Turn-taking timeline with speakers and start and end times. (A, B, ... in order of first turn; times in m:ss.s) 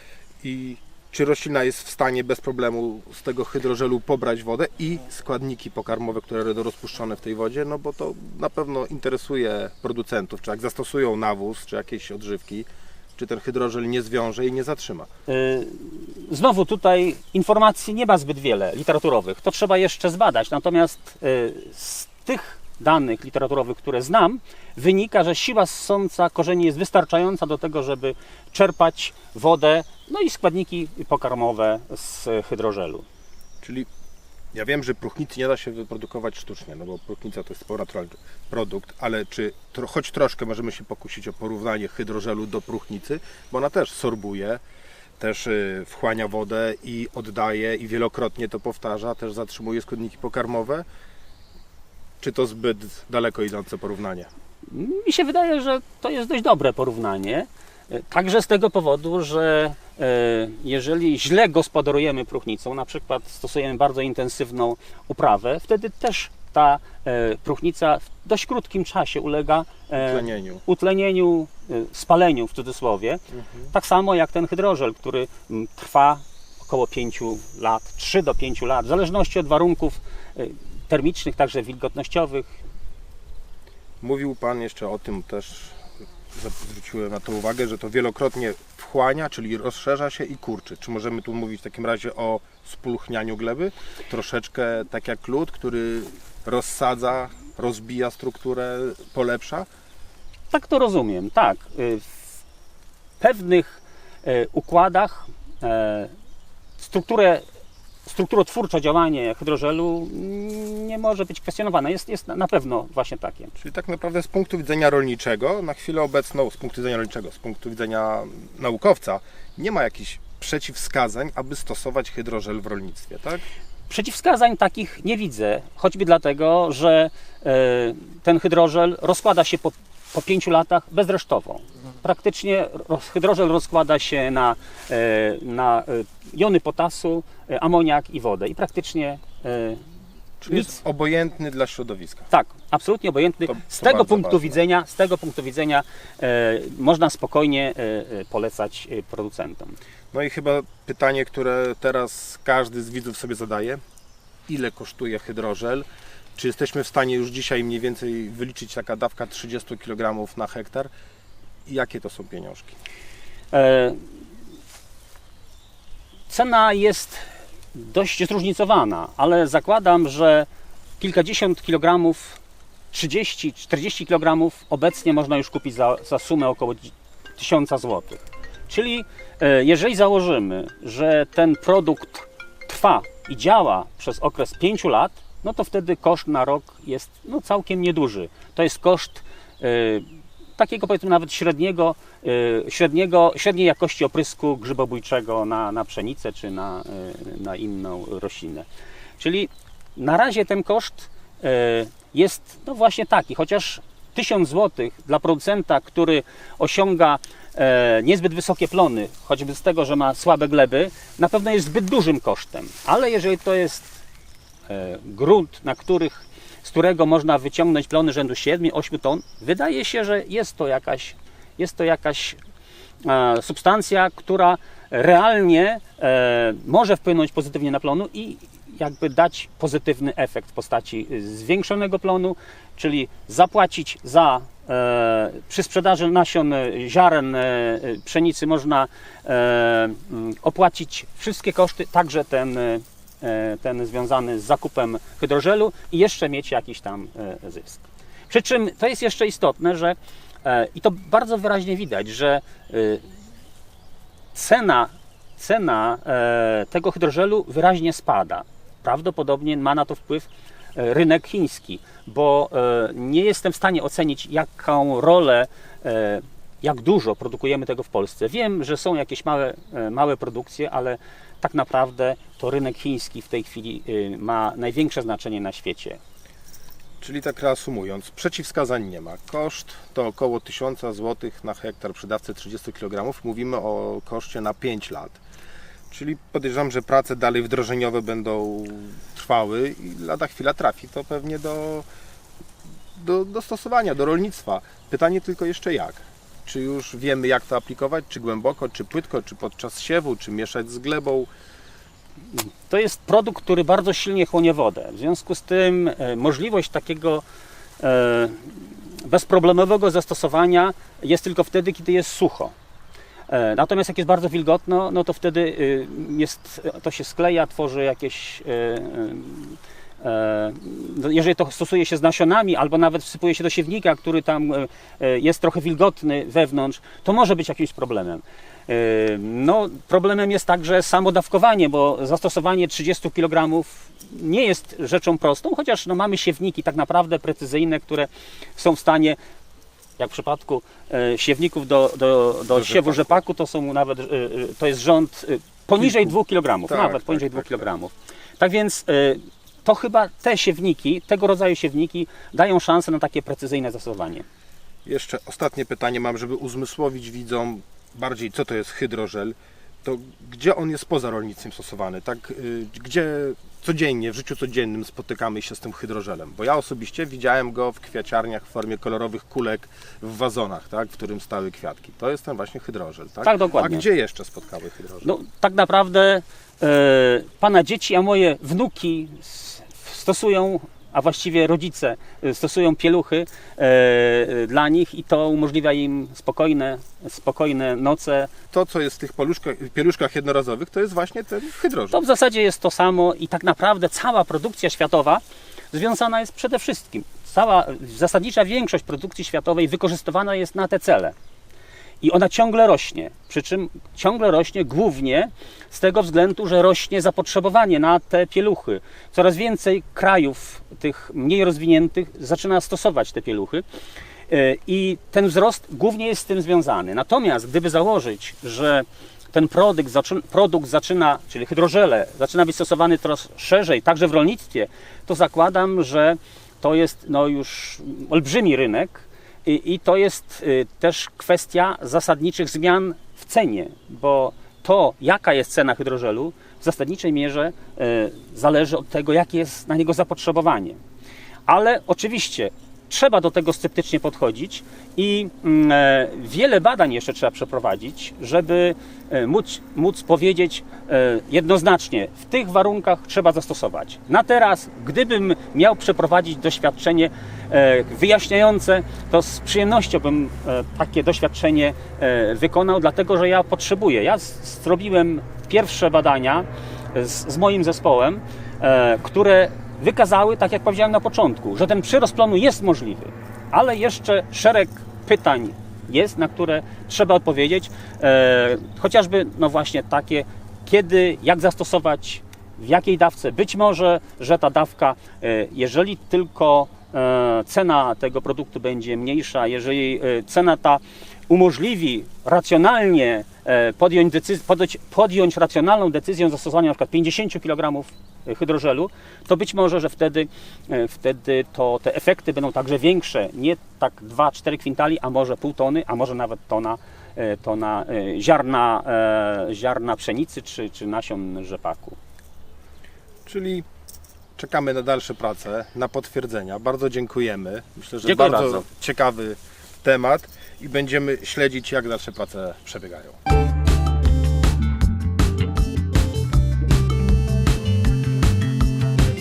0:00.4-0:15.1 A
0:15.3-0:33.0 B
0:33.6-0:33.9 A
0:34.5-0:44.6 A
0:45.2-0:50.8 A
0:52.2-0:54.3 A
0:54.7-1:22.5 B
1:10.0-1:10.6 A
1:13.3-1:13.7 A
1:24.0-1:25.8 A
1:26.3-1:39.7 A
1:40.5-1:42.2 B
1:43.2-1:46.1 B
1:46.8-1:47.4 B
1:48.0-1:53.5 B
1:53.6-2:03.4 A
2:03.9-2:19.8 B
2:20.4-2:22.3 A
2:22.3-2:29.8 B
2:23.5-2:24.6 A
2:30.1-2:33.8 A
2:34.5-2:40.9 A
2:41.6-2:42.8 A
2:43.5-2:44.0 B
2:46.3-2:50.5 B
2:51.0-2:52.4 B
2:52.9-3:18.7 B
3:19.2-3:33.9 B
3:34.7-3:42.4 B
3:43.0-4:13.0 B
4:14.3-4:36.0 B
4:37.0-4:45.2 A
4:45.9-4:51.8 A
4:52.9-5:01.3 A
5:02.3-5:07.2 B
5:07.8-5:12.5 B
5:13.3-5:39.2 B
5:40.0-5:54.2 B
5:42.5-5:43.2 A
5:45.8-5:46.1 A
5:46.7-5:47.7 A
5:54.8-6:15.1 A
6:13.2-6:13.8 B
6:15.0-6:28.3 B
6:28.5-6:32.0 A
6:31.9-6:41.1 B
6:42.0-6:53.6 B
6:54.3-7:20.8 B
7:21.5-8:32.0 B
8:33.2-8:33.6 A
8:34.4-8:43.2 A
8:38.0-8:38.6 B